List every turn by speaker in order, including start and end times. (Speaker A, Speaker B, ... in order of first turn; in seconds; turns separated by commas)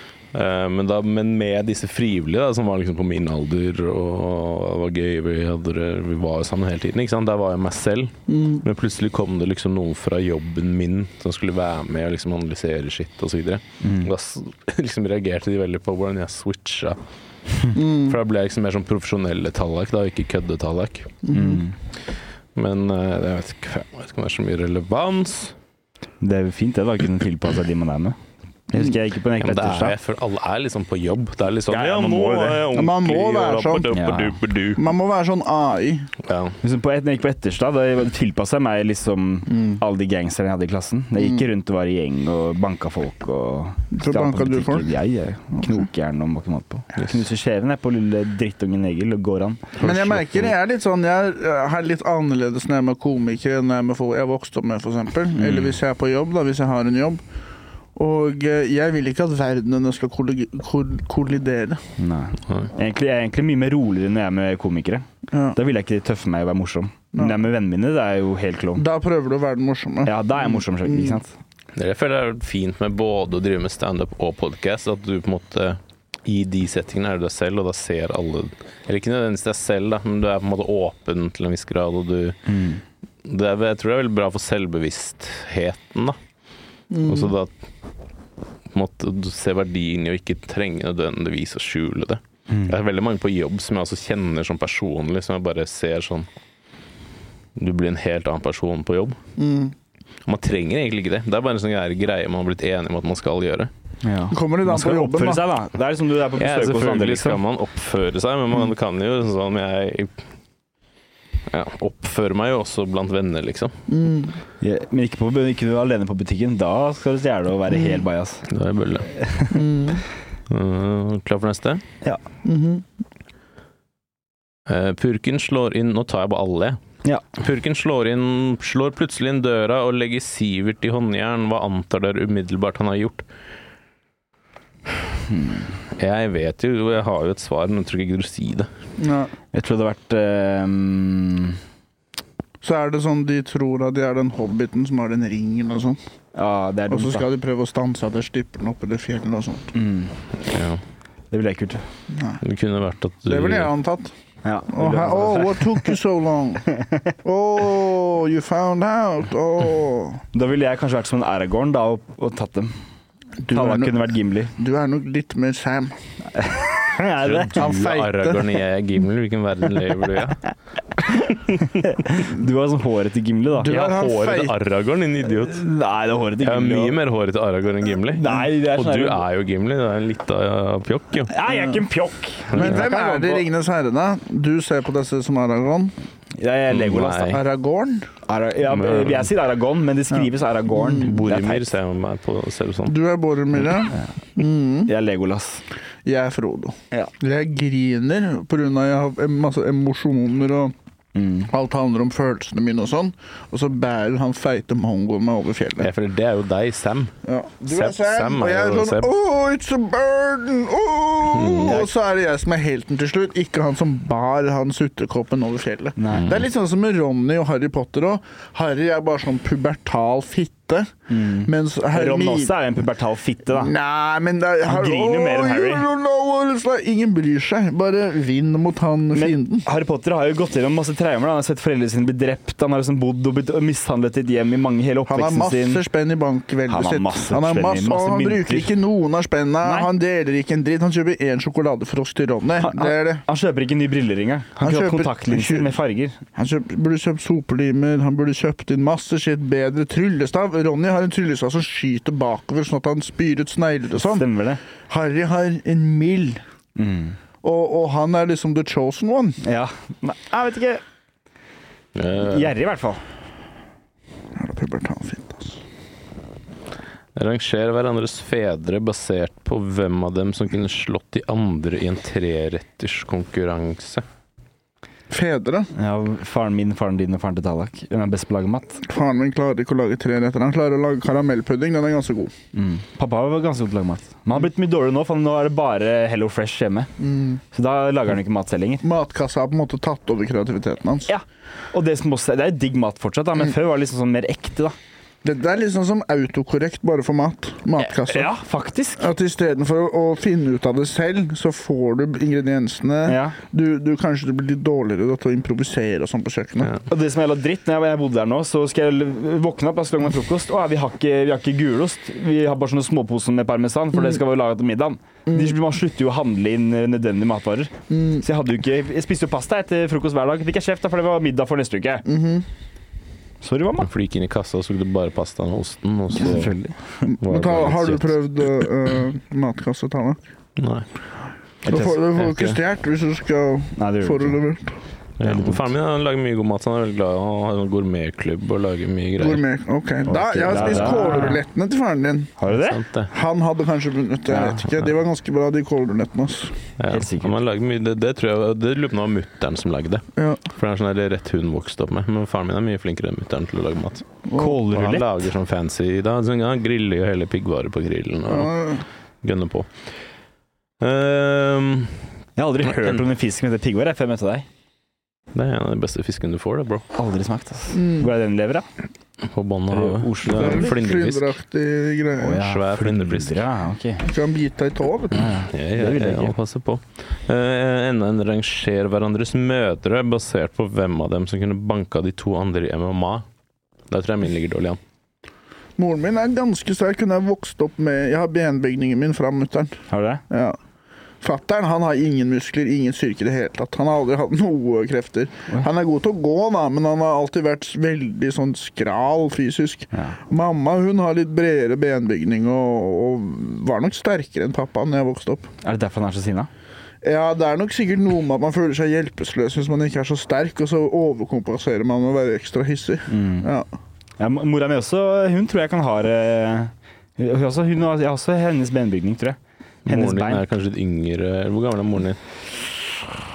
Speaker A: 0.3-17.0, Speaker B: 8.3-8.6, Speaker C: 13.8-14.1, Speaker B: 17.7-18.1, Speaker A: 17.9-21.2, Speaker B: 21.2-21.6, Speaker C: 21.3-21.8, Speaker A: 22.5-25.5, Speaker C: 26.2-28.2, Speaker C: 28.7-29.9, Speaker A: 29.4-34.8, Speaker C: 31.7-32.6, Speaker B: 32.6-33.9, Speaker C: 33.9-34.4, Speaker B: 34.8-36.1, Speaker A: 36.2-36.6, Speaker C: 36.6-49.7, Speaker B: 39.5-39.8, Speaker B: 43.9-44.9, Speaker B: 45.6-45.8, Speaker A: 49.8-50.5, Speaker B: 49.8-57.2, Speaker C: 55.4-55.7, Speaker B: 58.0-61.8, Speaker C: 62.0-68.8, Speaker B: 65.3-65.6, Speaker B: 67.1-67.4, Speaker B: 68.8-70.2, Speaker C: 70.0-71.3, Speaker B: 70.8-71.2, Speaker A: 71.8-82.4, Speaker C: 82.5-82.8, Speaker A: 83.2-86.2, Speaker B: 86.9-87.3, Speaker A: 87.0-87.5, Speaker A: 88.7-96.3, Speaker C: 92.5-92.8, Speaker A: 97.5-99.2, Speaker B: 99.4-99.7, Speaker A: 100.2-103.7, Speaker C: 104.0-107.4, Speaker B: 104.3-105.5, Speaker A: 106.3-110.2, Speaker A: 111.5-113.7, Speaker B: 113.9-114.3, Speaker C: 114.6-118.5, Speaker A: 118.5-119.1, Speaker C: 119.1-119.8, Speaker B: 119.5-120.0, Speaker A: 120.5-121.8, Speaker B: 122.4-122.8, Speaker A: 124.7-126.8, Speaker A: 127.3-133.2, Speaker C: 135.3-135.7, Speaker A: 135.9-138.7, Speaker B: 139.0-139.3, Speaker C: 139.5-141.6, Speaker B: 142.6-146.0, Speaker C: 146.3-147.2, Speaker B: 146.9-149.7, Speaker C: 149.7-150.1, Speaker A: 150.4-150.8, Speaker C: 151.3-151.8, Speaker B: 152.1-152.4, Speaker A: 152.4-153.7, Speaker B: 153.3-154.1, Speaker C: 154.4-155.9, Speaker B: 154.7-156.7, Speaker C: 156.7-157.1, Speaker B: 157.2-160.2, Speaker C: 160.3-162.7, Speaker B: 163.4-165.9, Speaker C: 163.5-164.5, Speaker C: 166.3-167.7, Speaker A: 167.2-170.4, Speaker B: 167.6-168.5, Speaker C: 171.6-173.9, Speaker B: 173.6-174.5, Speaker A: 173.7-175.6, Speaker C: 175.4-177.0, Speaker A: 176.4-181.3, Speaker C: 178.1-179.2, Speaker C: 181.2-183.5, Speaker B: 181.5-181.8, Speaker A: 182.5-182.8, Speaker B: 182.5-185.9, Speaker C: 186.4-187.4, Speaker A: 186.7-187.4, Speaker B: 187.2-188.1, Speaker C: 188.3-191.7, Speaker A: 188.7-189.3, Speaker A: 190.9-193.0, Speaker B: 192.9-194.9, Speaker C: 194.9-195.6, Speaker B: 196.0-200.7, Speaker C: 201.1-201.5, Speaker B: 201.5-205.9, Speaker A: 205.8-207.1, Speaker B: 207.2-220.9, Speaker A: 207.7-209.1, Speaker A: 211.3-211.8, Speaker C: 211.6-211.9, Speaker C: 216.0-216.3, Speaker C: 221.1-223.7, Speaker B: 221.4-222.5, Speaker B: 223.5-229.6, Speaker C: 224.7-225.8, Speaker C: 229.1-235.8, Speaker B: 235.1-243.2, Speaker C: 236.7-238.7, Speaker C: 239.6-239.9, Speaker C: 242.6-246.2, Speaker B: 244.6-245.7, Speaker B: 246.3-254.3, Speaker C: 253.9-254.6, Speaker B: 254.9-256.4, Speaker C: 256.8-257.2, Speaker B: 257.4-259.4, Speaker C: 259.4-260.8, Speaker A: 261.9-262.5, Speaker C: 262.2-263.0, Speaker B: 264.3-265.6, Speaker A: 267.1-274.0, Speaker B: 275.1-275.7, Speaker C: 275.7-278.8, Speaker B: 278.8-282.3, Speaker C: 282.5-286.9, Speaker B: 287.0-287.4, Speaker C: 287.5-288.8, Speaker B: 288.8-291.1, Speaker C: 291.1-294.7, Speaker B: 295.2-298.3, Speaker C: 297.8-299.1, Speaker B: 299.0-306.7, Speaker C: 303.1-303.4, Speaker C: 306.9-322.0, Speaker B: 317.9-318.2, Speaker B: 322.1-322.4, Speaker C: 323.4-323.9, Speaker A: 323.8-326.5, Speaker C: 326.1-327.1, Speaker B: 327.1-330.2, Speaker A: 327.2-328.2, Speaker A: 330.6-330.9, Speaker C: 331.6-332.0, Speaker B: 331.7-334.7, Speaker A: 332.0-332.6, Speaker C: 333.8-334.4, Speaker A: 335.2-339.4, Speaker C: 335.2-335.6, Speaker B: 339.2-342.3, Speaker C: 340.1-341.4, Speaker C: 342.4-342.8, Speaker A: 342.5-343.1, Speaker B: 343.1-346.6, Speaker C: 344.3-344.7, Speaker A: 346.8-354.1, Speaker C: 346.9-347.3, Speaker B: 350.2-350.4, Speaker B: 354.3-354.6, Speaker C: 354.4-355.1, Speaker A: 354.6-358.5, Speaker B: 358.3-358.8, Speaker A: 359.2-359.9, Speaker A: 360.8-362.0, Speaker C: 362.4-364.4, Speaker A: 362.7-363.0, Speaker A: 365.3-366.8, Speaker C: 366.9-368.6, Speaker B: 367.7-368.1, Speaker A: 369.2-371.3, Speaker C: 369.7-370.7, Speaker B: 370.3-372.4, Speaker C: 372.2-374.1, Speaker A: 372.3-373.4, Speaker B: 374.0-375.4, Speaker C: 375.1-376.3, Speaker A: 375.5-383.2, Speaker A: 383.9-384.8, Speaker B: 385.8-390.6, Speaker C: 389.9-390.2, Speaker B: 391.2-405.5, Speaker C: 405.6-406.5, Speaker B: 407.0-413.7, Speaker C: 413.1-413.5, Speaker C: 414.2-420.4, Speaker A: 419.9-422.2